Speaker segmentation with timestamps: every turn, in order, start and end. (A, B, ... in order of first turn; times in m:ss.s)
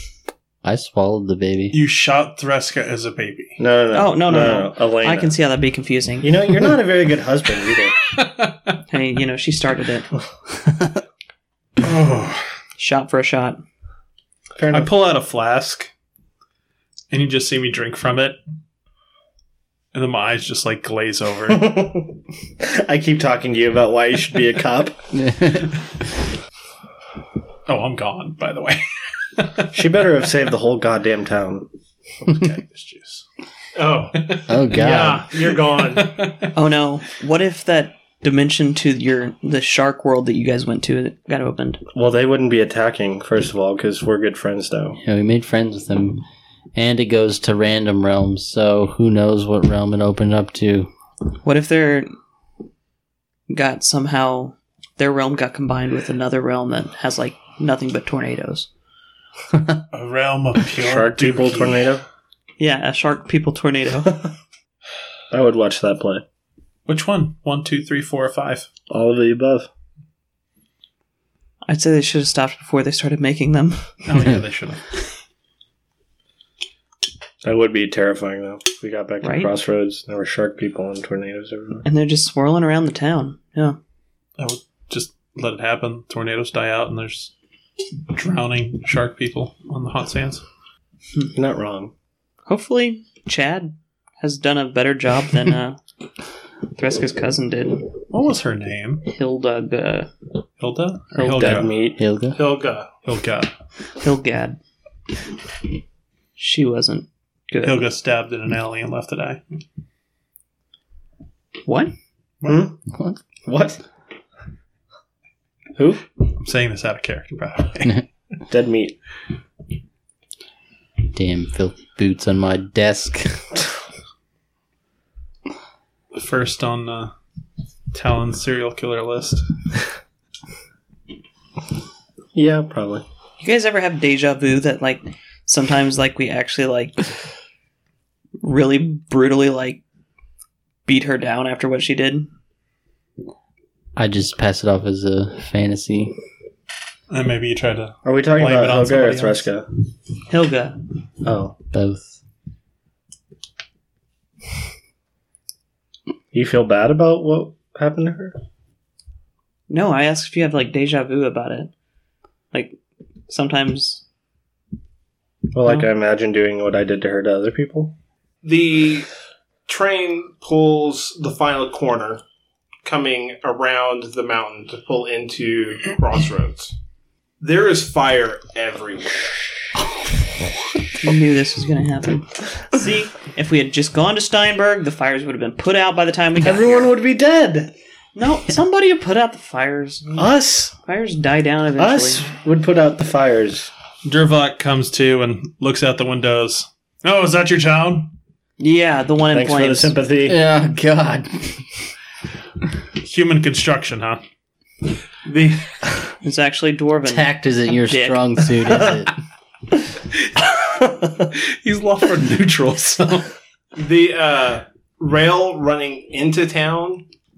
0:00.6-0:01.8 A
0:01.7-0:03.6 B
0:03.6-0:05.3 C
0:03.9-0:06.3 D
0:06.2-0:08.0 C
0:08.1-0:08.8 B
0:08.9-0:10.1 D
0:11.8-0:12.5 B
0:12.8-0:13.6 D
0:14.6-0:14.9 C
0:14.7-0:15.9 B
0:17.1-0:18.4 B
0:19.9-0:21.7 B
0:21.5-0:25.0 C
0:25.1-0:25.7 A
0:27.6-0:28.8 B
0:29.4-0:29.7 B
0:29.7-0:31.7 C
0:32.2-0:33.2 B
0:33.7-0:36.2 E
0:34.5-0:35.3 A
0:36.0-0:36.5 B
0:36.5-0:41.8 D
0:41.9-0:45.0 C
0:45.0-0:50.9 A
0:51.4-0:52.1 D
0:53.5-0:58.7 D
0:59.9-1:01.9 B
1:00.8-1:02.0 C
1:02.6-1:04.2 D
1:05.3-1:06.2 C
1:06.9-1:08.7 B
1:08.9-1:09.7 C
1:11.6-1:14.0 D
1:14.0-1:14.8 B
1:17.4-1:21.8 C
1:19.2-1:19.5 D
1:21.8-1:23.8 D
1:24.4-1:27.3 B
1:28.1-1:30.4 B
1:31.3-1:31.9 C
1:32.5-1:35.8 D
1:36.7-1:37.9 D
1:38.1-1:39.1 B
1:39.1-1:40.1 D
1:40.6-1:41.7 B
1:41.2-1:42.0 C
1:42.0-1:42.4 A
1:42.3-1:42.9 E
1:43.0-1:43.5 B
1:44.0-1:44.6 D
1:46.4-1:47.8 D
1:47.6-1:49.4 B
1:51.6-1:51.9 D
1:52.4-1:52.8 C
1:52.9-1:53.2 A
1:53.4-1:53.8 C
1:55.8-1:56.0 C
1:56.4-1:58.0 B
1:58.5-1:59.0 C
2:01.1-2:03.6 A
2:06.1-2:07.1 B
2:07.9-2:09.4 B
2:12.3-2:13.0 C
2:13.4-2:17.0 D
2:18.4-2:19.8 D
2:20.8-2:22.3 D
2:24.0-2:26.2 A
2:27.1-2:29.4 B
2:28.0-2:29.7 C
2:30.3-2:30.8 D
2:31.2-2:31.6 C
2:31.7-2:32.2 A
2:36.3-2:38.4 C
2:39.7-2:41.7 D
2:43.3-2:44.0 D
2:45.5-2:47.9 C
2:48.4-2:49.1 E
2:49.7-2:52.2 E
2:52.8-2:56.7 E
2:57.4-2:59.3 E
3:01.0-3:06.9 D
3:06.4-3:07.7 C
3:08.1-3:12.2 D
3:10.2-3:10.7 C
3:11.8-3:13.7 C
3:14.0-3:18.1 B
3:18.6-3:20.0 D
3:19.3-3:20.4 C
3:20.2-3:21.7 A
3:23.0-3:24.2 B
3:25.2-3:25.7 E
3:26.2-3:28.4 D
3:27.0-3:29.2 A
3:31.3-3:33.3 B
3:33.7-3:37.0 E